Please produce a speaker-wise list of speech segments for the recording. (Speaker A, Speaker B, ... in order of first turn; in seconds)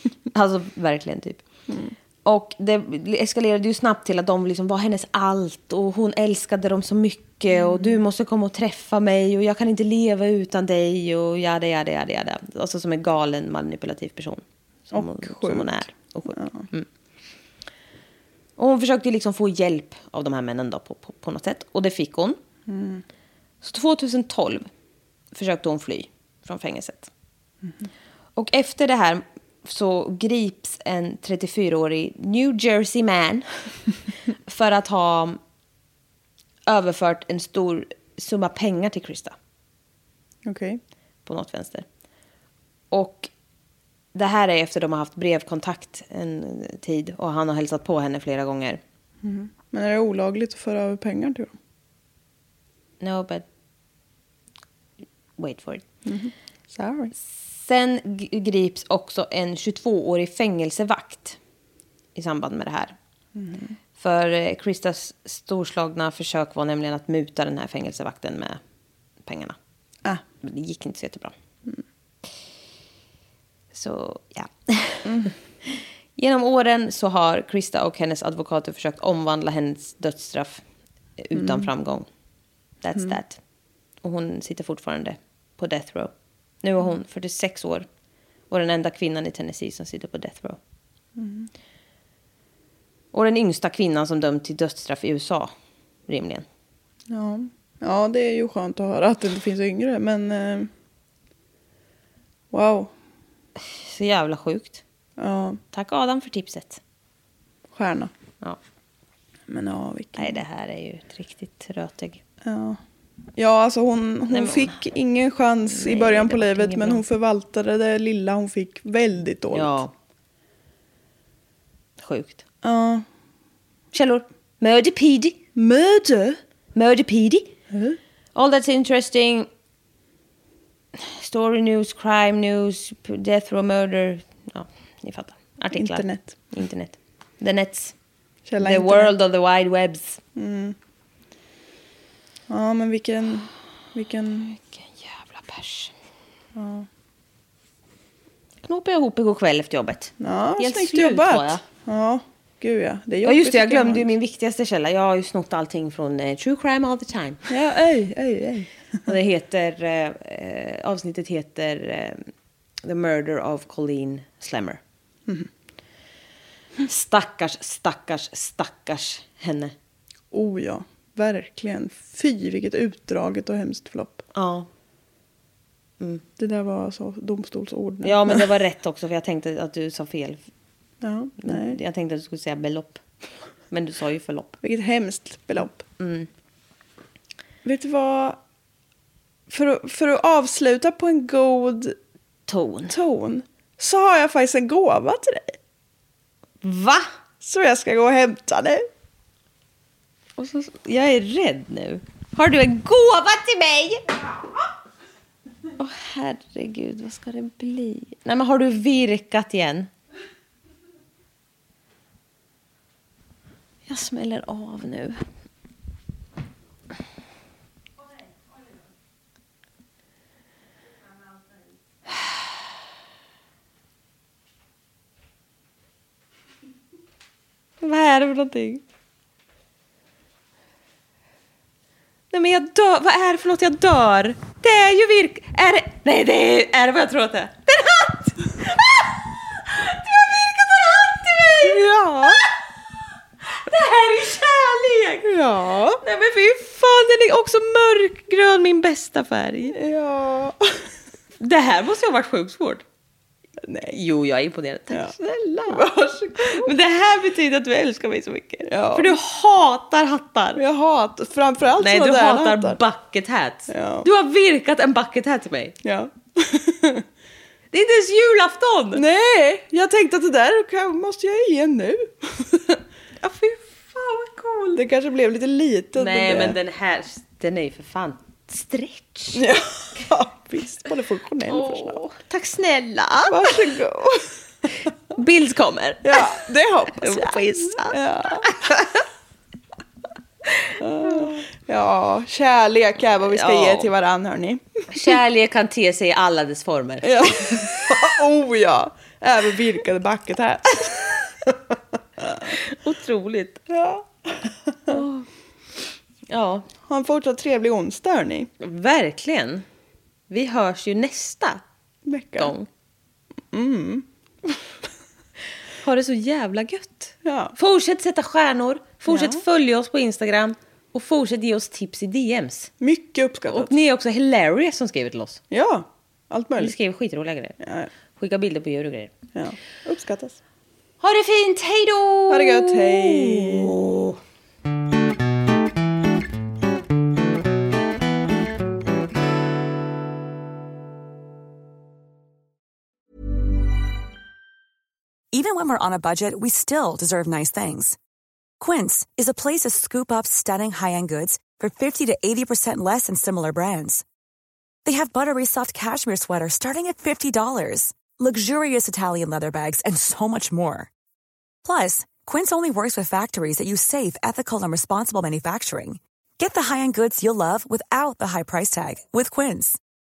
Speaker A: 0.3-1.4, 2.2-16.9, 18.6-22.4, 23.6-24.7, 25.3-27.1, 28.4-33.5, 34.4-35.4, 36.7-39.4, 41.2-41.9, 42.9-43.3, 44.1-48.8, 53.0-53.4, 55.4-55.8, 57.3-61.4, 62.1-63.0, 64.0-68.6, 69.2-69.6, 70.4-71.3, 73.7-80.6, 81.2-82.1, 82.8-83.4, 84.0-86.1, 86.6-87.8, 88.5-90.6, 93.1-95.5, 96.1-96.5, 103.7-104.8, 105.7-106.8, 110.2-112.2, 114.3-114.8, 115.7-117.0, 119.5-119.9, 122.0-122.4, 123.9-125.5, 126.7-127.5, 128.3-129.5, 130.9-137.9, 138.6-140.2, 144.5-145.9, 148.6-151.6, 153.2-157.5, 159.1-162.3, 162.8-164.8, 166.8-169.7, 174.3-174.7, 178.0-180.4, 181.4-183.0, 183.7-184.6, 186.0-186.3, 192.5-192.9, 196.6-197.1, 200.4-204.2, 205.8-209.9, 213.8-215.2, 227.8-228.8, 232.3-239.1, 239.6-242.5, 243.6-245.3, 246.0-249.8, 251.4-252.8, 253.9-255.8, 256.4-260.6, 261.8-265.8, 267.7-269.0, 273.2-274.8, 276.0-279.4, 281.5-283.7, 284.9-288.8, 291.0-291.3, 293.2-293.9, 294.9-297.9, 302.4-303.6, 304.9-305.3, 306.3-306.7, 308.6-309.6, 310.3-311.6, 312.4-312.7, 315.8-322.7, 323.5-325.4, 326.6-327.6, 328.2-329.1, 331.0-334.2
Speaker B: 1.7-1.9, 14.9-16.7, 22.7-23.0, 40.4-40.8, 49.2-51.5, 56.0-57.1, 63.4-63.8, 75.0-75.3, 81.3-81.7, 91.2-91.5, 97.1-100.7, 102.5-102.9, 105.2-105.6, 107.7-108.1, 109.5-110.3, 112.4-112.8, 113.4-119.8, 122.6-123.0, 125.5-126.4, 127.7-128.0, 135.7-136.3, 138.4-139.1, 140.3-140.8, 142.5-144.6, 146.6-146.9, 150.2-154.1, 157.5-158.7, 170.3-174.2, 176.4-178.4, 181.0-181.8, 184.6-185.8, 187.6-188.4, 189.5-191.9, 192.9-195.6, 197.4-198.9, 241.6-242.4, 245.2-246.0, 249.7-250.8, 253.6-254.0, 254.9-256.7, 258.7-259.1, 260.6-262.8, 263.7-264.1, 265.8-267.0, 268.9-272.8, 274.7-276.6, 279.3-282.0, 283.3-284.3, 286.0-288.7, 290.8-294.9, 297.0-301.6, 302.2-302.5, 303.7-305.0, 306.8-308.5, 312.1-312.5, 313.5-314.5, 317.2-317.5, 319.1-319.4, 322.8-323.7, 325.5-326.7, 327.6-327.9, 329.3-330.4, 332.3-333.7
Speaker C: 345.3-348.0, 348.6-354.0, 354.8-360.9, 361.6-369.8